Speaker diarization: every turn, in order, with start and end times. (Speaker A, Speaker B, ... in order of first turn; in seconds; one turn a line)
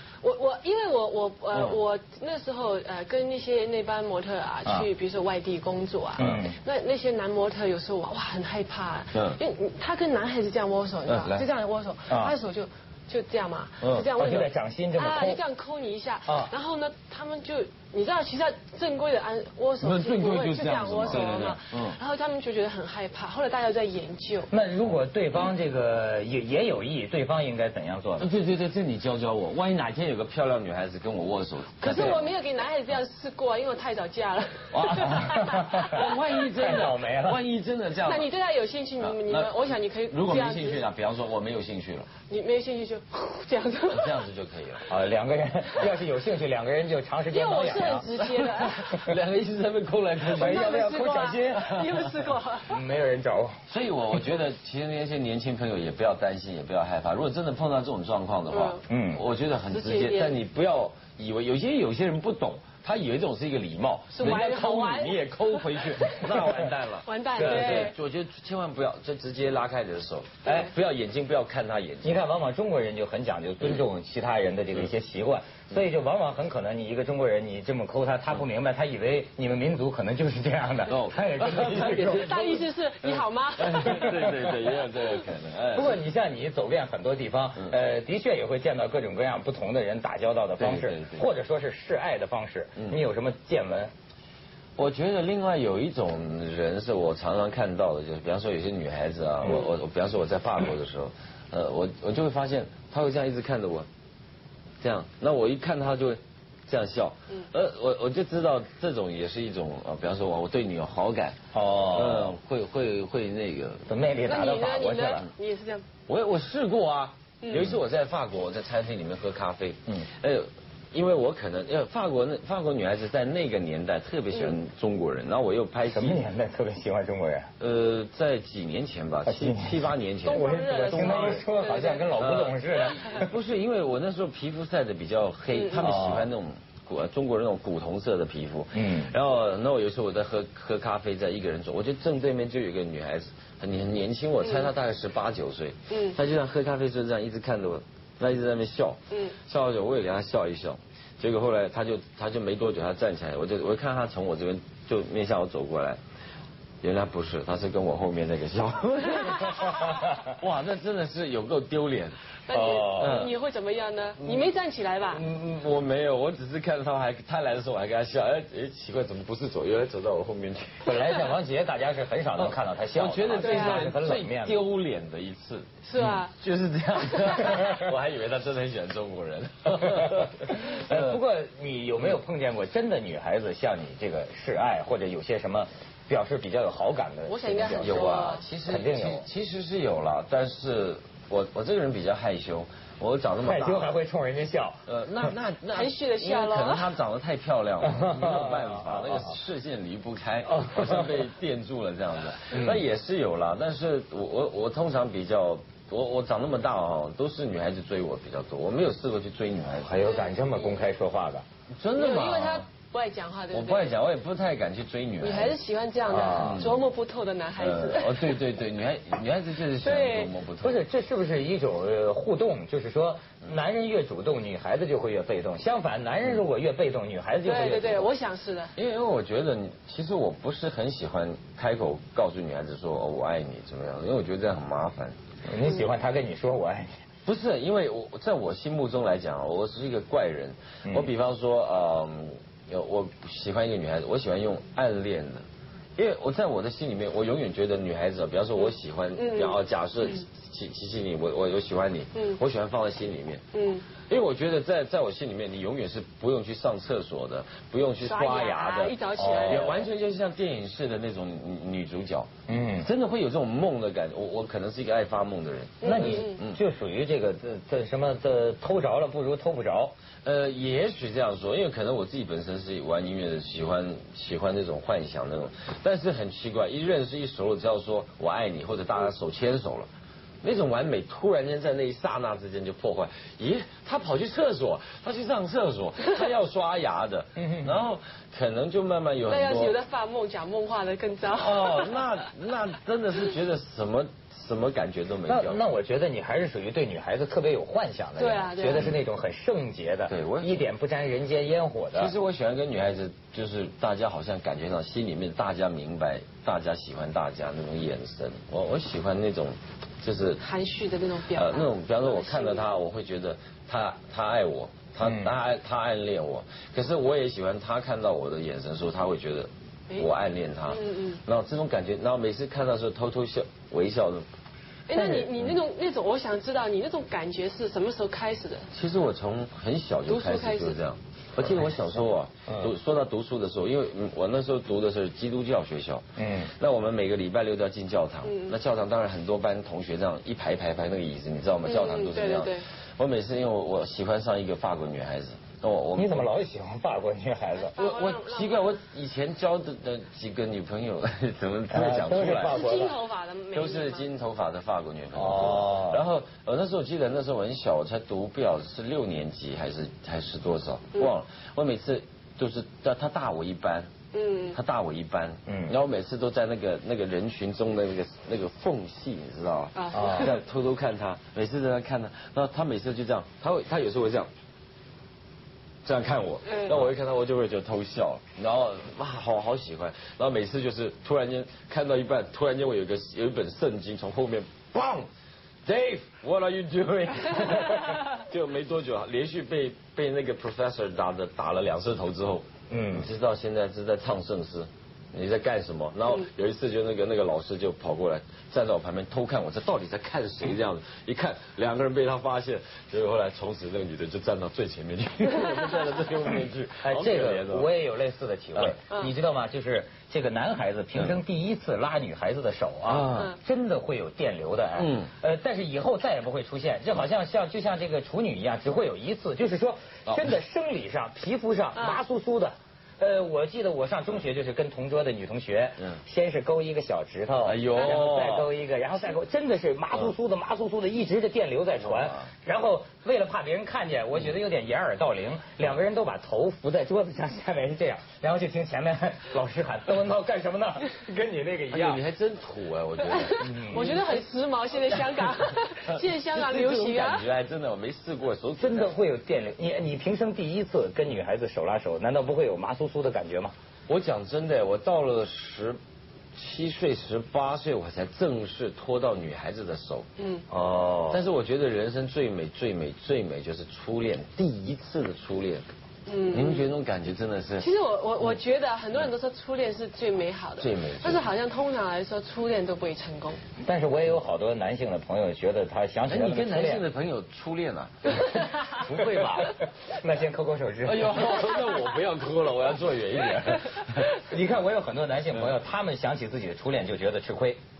Speaker A: 0.2-24.5
Speaker B: 1.5-1.8
Speaker C: 6.2-6.5
Speaker B: 9.1-9.4
Speaker B: 11.1-11.5
Speaker C: 12.1-12.3
Speaker B: 13.8-14.1
Speaker C: 14.2-15.4
Speaker C: 16.2-16.5
Speaker B: 19.8-22.0
Speaker C: 24.5-28.3
Speaker B: 28.2-32.3
Speaker A: 31.8-36.1
Speaker B: 34.7-35.3
Speaker C: 34.9-37.4
Speaker B: 35.9-38.3
Speaker A: 38.0-40.8
Speaker B: 39.0-39.6
Speaker B: 40.1-42.1
Speaker A: 42.3-44.2
Speaker B: 43.9-44.9
Speaker C: 44.9-48.0
Speaker A: 47.3-49.1
Speaker B: 48.1-50.9
Speaker A: 50.3-52.8
Speaker C: 50.4-51.6
Speaker B: 51.4-52.1
Speaker C: 52.7-53.6
Speaker B: 53.7-72.2
Speaker A: 58.5-58.8
Speaker C: 58.9-59.2
Speaker A: 59.7-60.3
Speaker A: 64.1-66.3
Speaker A: 67.0-68.0
Speaker C: 67.4-67.9
Speaker A: 70.4-70.7
Speaker C: 72.0-82.3
Speaker B: 80.9-86.0
Speaker A: 82.1-84.3
Speaker C: 83.8-84.5
Speaker C: 85.7-93.9
Speaker B: 90.6-91.3
Speaker B: 94.8-103.9
Speaker B: 104.8-111.4
Speaker C: 111.5-112.3
Speaker B: 111.9-113.9
Speaker C: 113.9-115.2
Speaker A: 114.2-115.8
Speaker B: 116.1-126.2
Speaker A: 117.4-117.8
Speaker C: 125.9-127.5
Speaker B: 127.6-131.5
Speaker C: 129.2-133.3
Speaker A: 130.2-132.1
Speaker B: 132.1-156.0
Speaker A: 135.5-135.9
Speaker C: 135.8-136.3
Speaker C: 138.7-139.1
Speaker A: 144.4-144.7
Speaker A: 145.9-146.2
Speaker A: 149.1-149.4
Speaker B: 156.8-162.2
Speaker A: 162.5-165.2
Speaker C: 162.5-163.3
Speaker B: 162.9-163.3
Speaker B: 164.2-164.5
Speaker B: 165.1-170.9
Speaker C: 170.8-174.6
Speaker B: 172.4-175.8
Speaker A: 173.4-173.9
Speaker A: 175.8-176.3
Speaker B: 176.3-181.2
Speaker A: 177.1-177.4
Speaker C: 177.5-177.9
Speaker C: 179.8-189.2
Speaker A: 187.3-188.4
Speaker B: 187.7-193.9
Speaker C: 193.4-194.8
Speaker B: 194.8-210.1
Speaker A: 195.7-196.9
Speaker C: 197.8-199.3
Speaker C: 200.5-201.1
Speaker C: 202.5-202.8
Speaker C: 209.8-211.4
Speaker A: 210.0-210.8
Speaker B: 211.7-212.7
Speaker A: 211.9-213.9
Speaker B: 213.5-215.6
Speaker A: 215.2-218.4
Speaker C: 216.1-216.7
Speaker B: 216.3-216.8
Speaker B: 217.6-220.8
Speaker A: 219.8-220.3
Speaker C: 220.6-228.1
Speaker A: 227.4-228.7
Speaker B: 228.8-235.2
Speaker C: 235.4-236.9
Speaker B: 237.2-245.4
Speaker C: 240.8-241.1
Speaker B: 245.9-253.4
Speaker A: 249.2-249.6
Speaker A: 253.5-253.9
Speaker B: 254.1-266.6
Speaker A: 258.0-259.9
Speaker C: 259.1-259.7
Speaker C: 262.5-262.9
Speaker A: 265.8-266.4
Speaker C: 265.8-269.9
Speaker B: 270.2-279.9
Speaker B: 280.4-289.8
Speaker C: 287.4-287.8
Speaker A: 289.3-292.0
Speaker B: 291.3-295.6
Speaker C: 295.3-302.1
Speaker A: 298.2-298.9
Speaker B: 300.1-300.7
Speaker B: 301.9-310.4
Speaker A: 310.4-312.7
Speaker B: 311.3-324.2
Speaker C: 315.0-315.3
Speaker A: 320.7-321.2
Speaker A: 324.9-328.7
Speaker C: 324.9-325.3
Speaker B: 328.7-346.3
Speaker A: 330.1-330.8
Speaker C: 332.5-332.7
Speaker C: 336.2-336.5
Speaker A: 338.2-338.6
Speaker A: 341.6-342.6
Speaker C: 345.9-347.7
Speaker A: 347.6-348.8
Speaker B: 347.8-352.7
Speaker C: 351.7-353.0
Speaker A: 352.3-354.1
Speaker B: 353.5-363.9
Speaker C: 355.1-356.0
Speaker A: 364.1-364.6
Speaker B: 364.5-374.3
Speaker C: 365.5-365.7
Speaker A: 369.8-370.4
Speaker C: 369.9-370.3
Speaker B: 375.8-385.1
Speaker A: 376.4-376.7
Speaker B: 385.6-407.7
Speaker C: 392.7-393.1
Speaker C: 406.8-442.0
Speaker B: 412.9-413.3
Speaker B: 414.8-415.1
Speaker B: 427.4-428.5
Speaker B: 431.8-432.3
Speaker B: 441.7-444.2
Speaker A: 443.1-447.3
Speaker C: 443.4-443.9
Speaker B: 444.7-448.9
Speaker C: 448.6-453.5
Speaker B: 453.9-455.8
Speaker B: 456.3-460.1
Speaker A: 460.2-460.4
Speaker C: 460.5-461.2
Speaker B: 461.1-465.6
Speaker A: 466.1-466.7
Speaker B: 466.3-467.7
Speaker A: 467.6-473.4
Speaker B: 470.6-471.2
Speaker C: 473.6-476.8
Speaker B: 476.1-479.5
Speaker C: 478.8-481.3
Speaker B: 480.8-484.1
Speaker C: 484.1-487.6